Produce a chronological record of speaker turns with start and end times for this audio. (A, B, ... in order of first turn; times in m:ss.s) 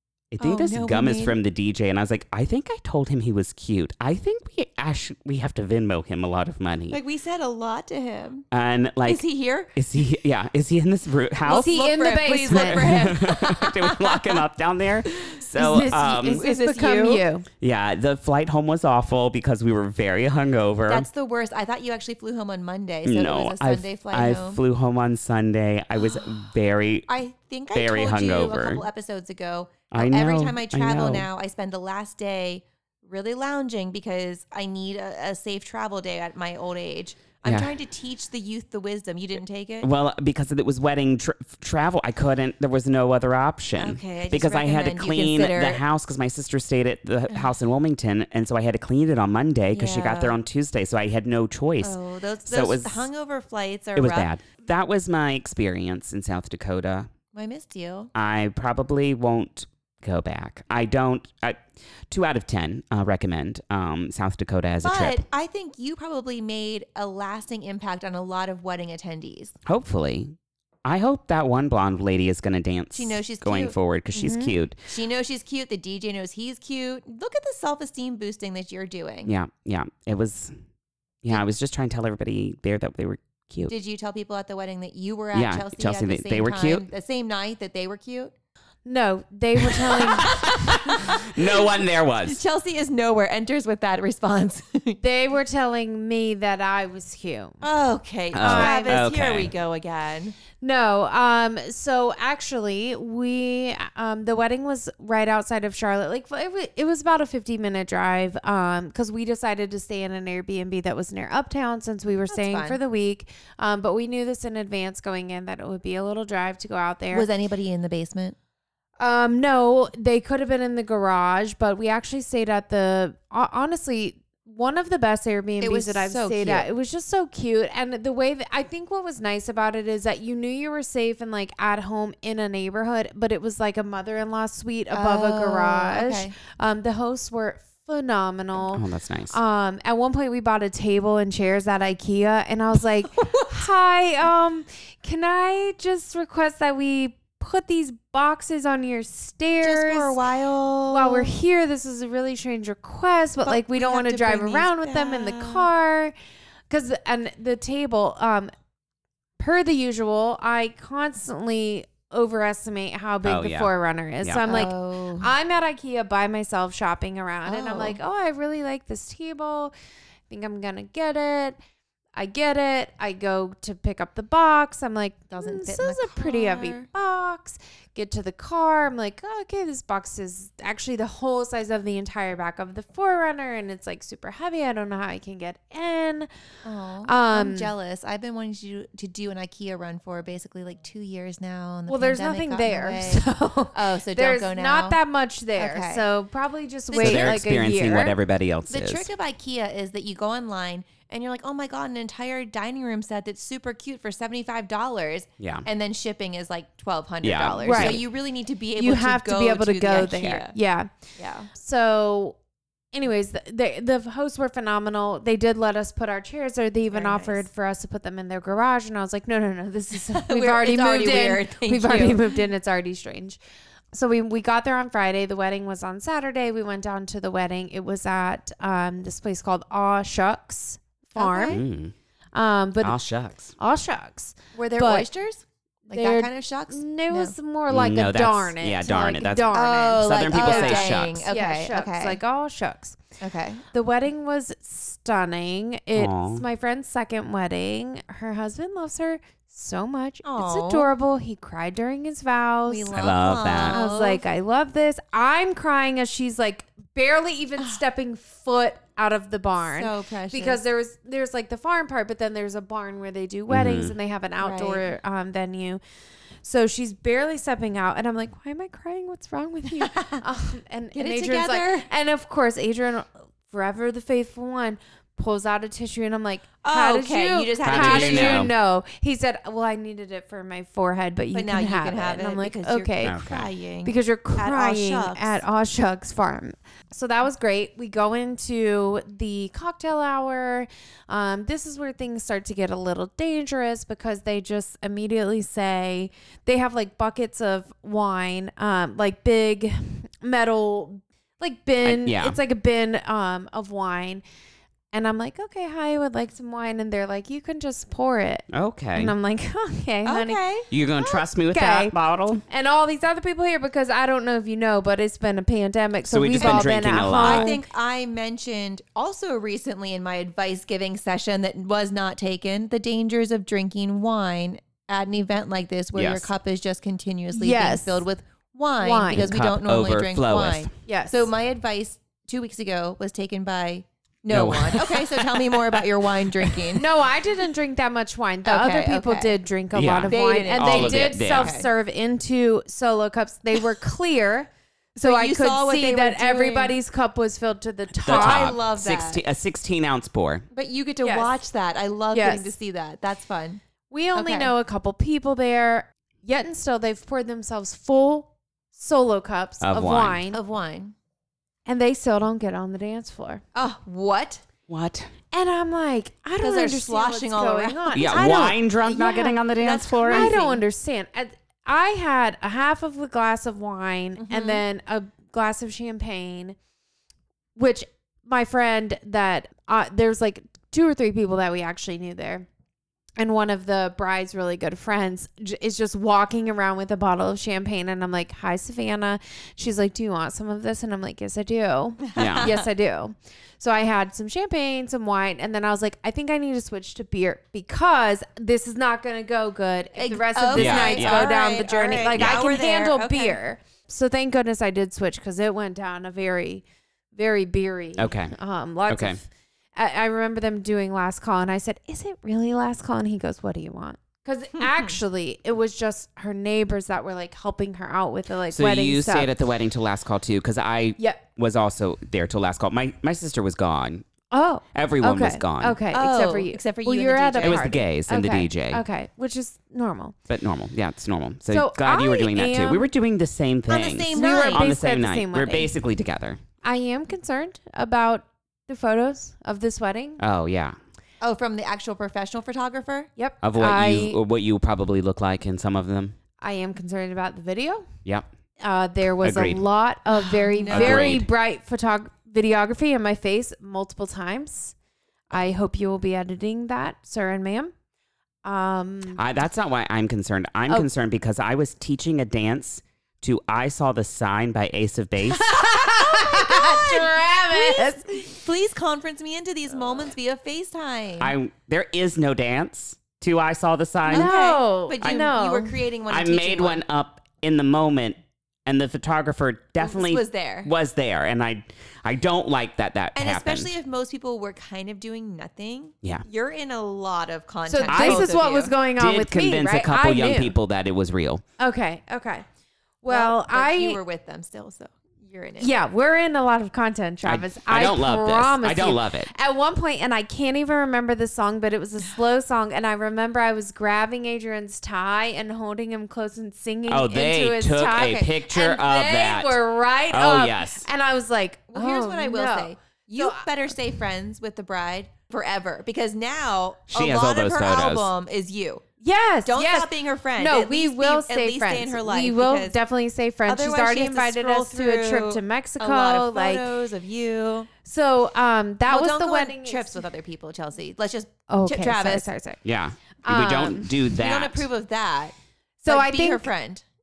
0:00.3-0:07.0 A
0:00.4-0:01.4 B
0:06.9-0:08.5 B
0:08.5-0:09.2 A
0:09.0-0:09.7 B
0:09.7-0:11.8 A
0:11.4-0:14.4 B
0:11.5-0:13.2 C
0:12.5-0:16.5 A
0:15.0-0:15.4 B
0:15.6-0:17.4 C
0:16.3-0:17.2 B
0:17.6-0:21.1 A
0:20.9-0:24.6 B
0:23.0-0:27.1 A
0:27.1-0:39.9 B
0:27.7-0:28.8 A
0:29.9-0:31.3 A
0:37.4-0:37.7 A
0:39.8-0:53.1 A
0:43.8-0:45.8 B
0:49.7-0:50.4 B
0:51.8-0:54.3 B
0:54.0-0:57.1 A
0:57.3-0:58.1 B
0:58.1-1:05.2 A
1:04.8-1:09.5 B
1:09.6-1:14.8 A
1:12.9-1:13.8 B
1:14.2-1:14.5 C
1:14.8-1:19.3 B
1:19.3-1:20.5 A
1:21.2-1:23.7 A
1:23.7-1:28.3 B
1:25.3-1:26.8 A
1:28.8-1:30.5 C
1:29.9-1:31.7 B
1:30.0-1:32.4 A
1:32.2-1:35.0 B
1:35.0-1:37.6 C
1:37.6-1:40.4 B
1:38.3-1:39.5 A
1:38.4-1:39.0 C
1:40.6-1:57.3 C
1:52.3-1:52.8 B
1:57.1-1:58.4 B
1:59.0-2:30.2 C
2:05.6-2:06.7 B
2:14.9-2:16.3 B
2:18.7-2:19.4 A
2:23.1-2:23.5 B
2:29.6-2:31.3 B
2:30.9-2:36.1 C
2:33.4-2:35.7 B
2:36.7-2:38.5 C
2:39.4-2:49.7 C
2:43.2-2:43.7 A
2:44.2-2:44.6 A
2:44.4-2:45.3 B
2:47.4-2:48.0 B
2:50.3-2:51.6 C
2:52.2-3:06.3 C
2:55.3-2:56.9 B
3:06.6-3:15.0 B
3:07.0-3:07.7 C
3:11.9-3:18.2 C
3:15.6-3:16.0 B
3:16.9-3:17.3 B
3:17.0-3:19.1 A
3:18.7-3:30.5 B
3:25.4-3:25.6 A
3:27.2-3:28.0 A
3:27.6-3:28.0 C
3:28.8-3:30.9 C
3:31.2-3:31.5 B
3:31.5-3:32.4 C
3:32.9-3:43.4 C
3:36.9-3:37.4 B
3:40.1-3:42.4 B
3:43.9-3:51.6 C
3:51.2-3:51.6 B
3:51.5-3:51.9 A
3:52.3-3:53.0 C
3:52.8-3:53.5 A
3:53.6-3:55.1 C
3:54.5-3:57.3 B
3:55.9-4:03.0 C
3:57.7-4:01.2 A
3:59.5-4:02.2 B
4:03.2-4:03.6 B
4:03.7-4:13.0 C
4:05.9-4:06.4 A
4:10.2-4:10.9 B
4:12.7-4:14.2 B
4:12.9-4:13.8 A
4:13.7-4:25.8 C
4:19.6-4:20.6 B
4:23.5-4:24.0 A
4:24.4-4:24.9 B
4:26.4-4:43.2 C
4:29.7-4:30.2 B
4:30.9-4:31.9 B
4:36.6-4:38.5 B
4:37.6-4:38.5 A
4:41.3-4:45.4 B
4:43.0-4:43.5 A
4:43.8-5:04.2 C
5:01.8-5:02.4 A
5:04.9-5:10.4 C
5:08.5-5:09.1 A
5:10.0-5:10.6 B
5:10.7-5:12.4 A
5:11.0-5:11.9 C
5:12.5-5:17.6 C
5:16.0-5:17.5 A
5:16.4-5:36.9 B
5:25.9-5:26.3 A
5:27.3-5:28.0 C
5:28.8-5:29.3 C
5:29.1-5:30.7 A
5:30.8-5:31.3 C
5:34.3-5:35.8 A
5:36.7-5:48.5 C
5:38.4-5:39.4 B
5:39.7-5:41.6 A
5:40.1-5:41.7 B
5:45.0-5:46.8 B
5:48.0-5:50.4 A
5:48.0-5:49.2 B
5:50.5-5:53.6 B
5:51.0-5:51.3 C
5:52.1-5:52.5 C
5:53.9-6:00.4 C
5:54.1-5:54.5 B
5:59.6-6:00.2 A
6:00.3-6:00.9 B
6:01.6-6:03.4 C
6:03.5-6:04.4 B
6:04.7-6:05.1 A
6:05.3-6:08.5 C
6:06.4-6:10.6 B
6:07.9-6:10.4 A
6:10.1-6:16.6 C
6:14.2-6:14.6 B
6:17.6-6:22.5 C
6:23.2-6:46.6 C
6:32.0-6:32.7 B
6:32.2-6:32.5 A
6:40.0-6:43.4 B
6:40.5-6:41.3 A
6:42.1-6:42.4 A
6:47.1-6:59.3 C
6:48.0-6:48.3 A
6:48.9-6:49.2 A
6:54.6-6:54.9 B
6:58.5-7:04.0 A
7:01.0-7:01.2 C
7:04.3-7:10.2 C
7:04.7-7:05.8 A
7:05.9-7:07.7 B
7:07.4-7:08.8 A
7:10.3-7:16.4 A
7:11.5-7:12.9 C
7:13.7-7:14.7 B
7:14.1-7:15.7 C
7:16.6-7:20.2 C
7:20.2-7:20.8 A
7:21.2-7:23.1 B
7:23.2-7:24.2 C
7:23.4-7:26.2 A
7:26.4-7:27.9 C
7:28.6-7:34.7 C
7:29.2-7:29.6 A
7:30.1-7:31.2 B
7:30.7-7:31.3 A
7:35.3-7:37.7 C
7:38.4-7:39.2 C
7:39.2-7:45.5 A
7:45.3-7:48.2 C
7:45.7-7:51.3 B
7:51.2-7:54.3 A
7:54.1-7:55.8 C
7:54.1-7:56.8 B
7:56.1-8:03.7 A
7:59.8-8:00.7 B
8:03.1-8:08.7 B
8:07.7-8:10.6 C
8:07.9-8:08.3 A
8:09.0-8:11.4 A
8:11.6-8:12.4 C
8:13.0-8:14.0 C
8:13.1-8:15.7 B
8:15.6-8:33.4 C
8:17.2-8:19.3 A
8:26.9-8:30.9 A
8:28.0-8:28.3 B
8:31.7-8:38.8 B
8:36.9-8:38.1 A
8:39.0-8:46.7 C
8:39.4-8:42.8 B
8:43.5-8:47.7 B
8:47.8-8:50.0 C
8:48.9-8:52.3 B
8:51.5-8:52.6 C
8:52.6-8:54.6 A
8:53.2-8:54.0 C
8:54.1-8:55.3 B
8:55.8-8:56.5 C
8:55.9-8:56.8 B